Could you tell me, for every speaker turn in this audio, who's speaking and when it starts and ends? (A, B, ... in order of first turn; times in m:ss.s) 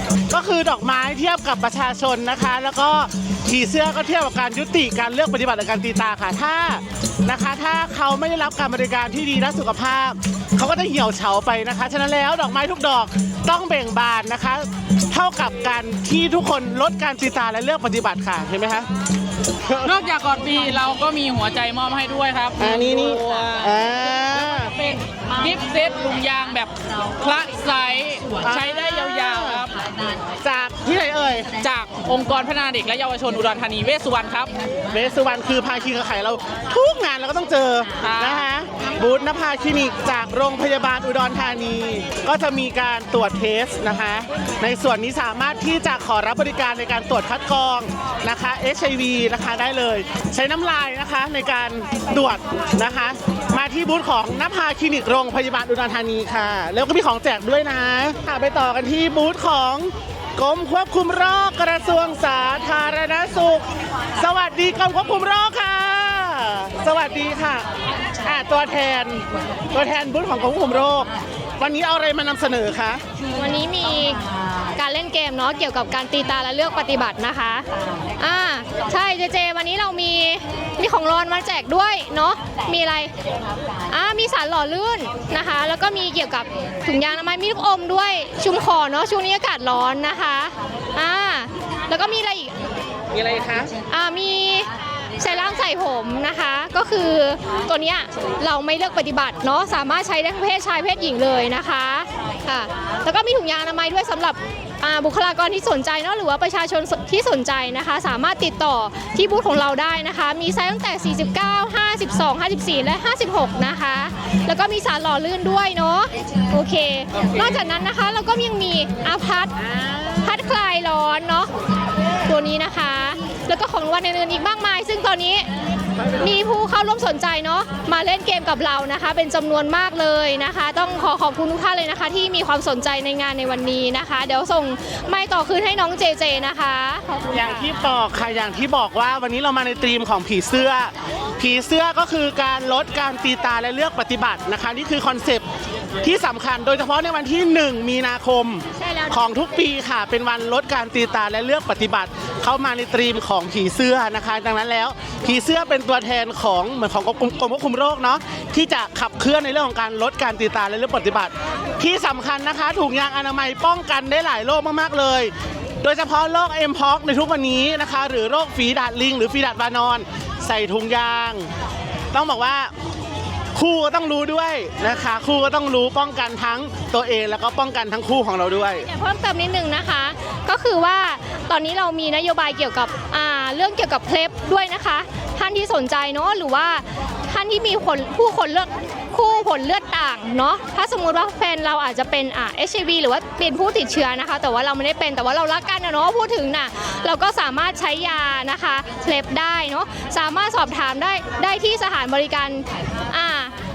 0:00.3-0:18.9 A
0:19.6-0:19.9 A
0:19.8-0:23.8 B
0:22.6-0:24.7 A
0:24.5-0:29.8 B
0:28.4-0:29.7 A
0:30.4-0:31.6 A
0:31.6-0:34.5 B
0:34.9-1:07.7 A
0:38.0-0:38.4 B
1:08.2-1:13.0 A
1:13.3-1:14.2 C
1:14.7-1:23.1 C
1:23.9-1:32.5 C
1:33.1-1:33.7 A
1:33.8-2:01.5 C
2:02.2-2:05.5 C
2:06.0-2:17.6 C
2:17.3-2:25.4 A
2:26.0-2:51.5 A
2:28.8-2:29.2 C
2:52.1-2:52.7 A
2:53.5-2:58.8 A
2:58.8-3:23.5 C